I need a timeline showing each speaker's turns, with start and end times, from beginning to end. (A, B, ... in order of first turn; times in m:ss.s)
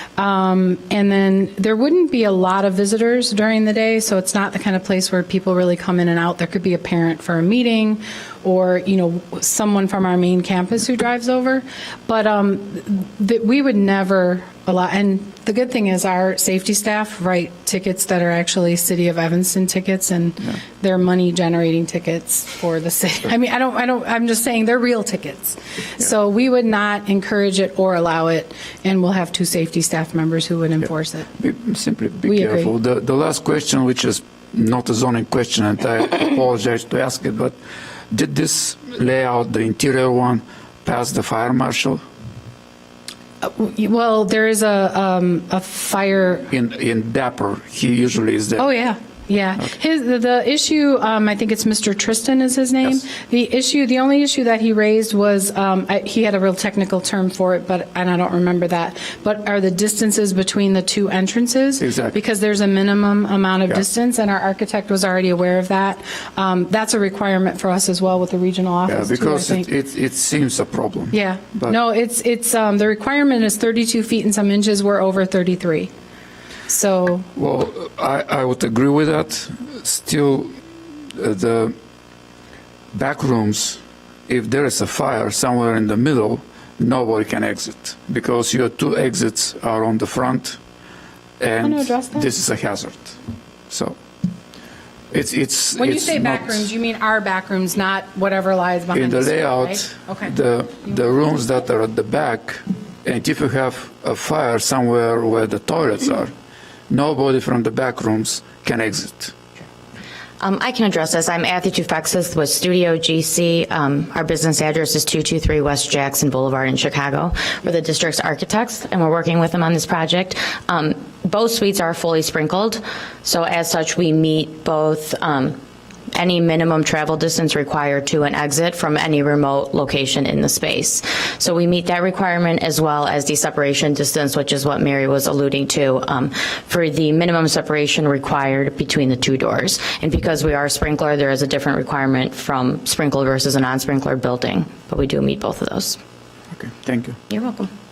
0:00.2-0:31.3 A
0:31.4-0:37.6 B
0:32.2-0:32.7 A
0:38.1-0:42.0 B
0:43.4-0:46.5 A
0:46.5-0:48.7 B
0:48.6-1:09.7 A
1:01.8-1:02.2 B
1:08.9-1:11.8 B
1:11.1-1:15.9 A
1:16.7-1:17.3 A
1:17.4-1:20.6 B
1:21.1-1:21.8 B
1:22.9-1:30.6 B
1:31.4-1:33.2 B
1:31.6-1:32.3 A
1:33.7-1:34.0 B
1:35.1-1:36.7 B
1:35.8-1:40.3 A
1:38.9-1:46.3 B
1:46.9-1:49.4 B
1:50.4-2:05.6 C
2:06.1-2:26.0 C
2:26.5-2:27.2 B
2:27.3-2:27.7 C